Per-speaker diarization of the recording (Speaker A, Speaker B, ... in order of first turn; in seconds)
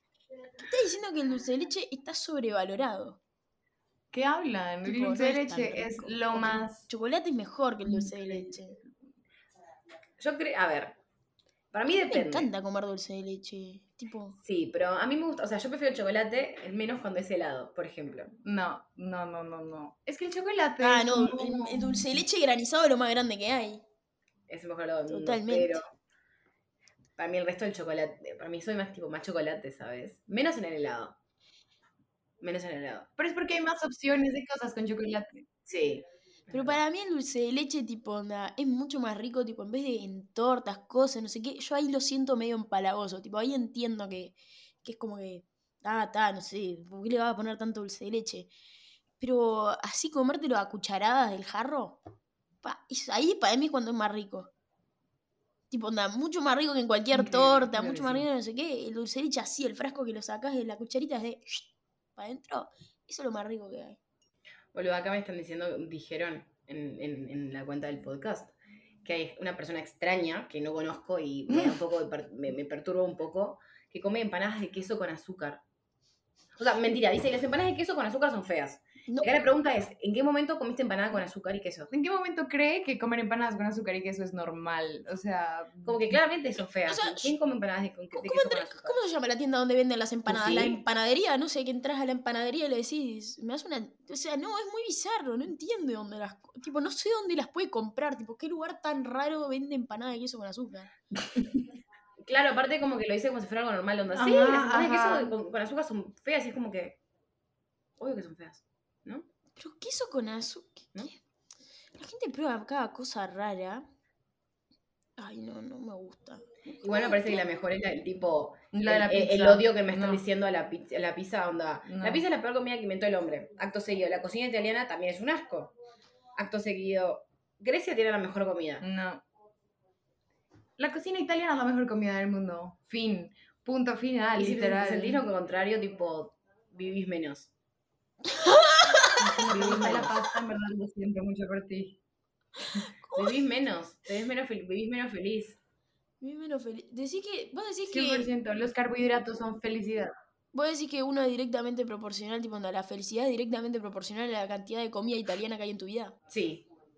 Speaker A: 0.6-3.2, 4.8-8.8, 12.1-14.4, 20.8-23.8, 25.1-25.8, 36.5-48.5, 49.2-52.0, 52.6-54.5, 55.7-64.0, 86.9-87.3, 88.1-100.9, 109.6-111.1, 112.0-113.8, 115.2-117.4, 138.3-139.4, 142.7-143.4, 146.2-148.3, 150.5-156.2
Speaker B: 4.1-6.9, 7.9-8.6, 18.4-22.2, 33.2-35.5, 81.9-86.2, 104.1-105.3, 118.7-120.2, 121.9-122.2, 128.8-129.2, 130.8-135.2, 139.2-142.0, 147.9-150.1
Speaker C: 10.2-11.0, 11.7-12.5, 14.4-18.3, 24.5-25.8, 27.2-31.2, 32.4-33.1, 35.7-36.8, 57.2-58.2, 64.7-75.6, 76.6-81.9, 85.8-89.0, 90.3-90.8, 102.2-107.0, 108.0-109.3, 116.8-125.7, 126.4-128.8, 134.3-137.5, 139.4-140.2, 143.2-145.6, 156.3-156.7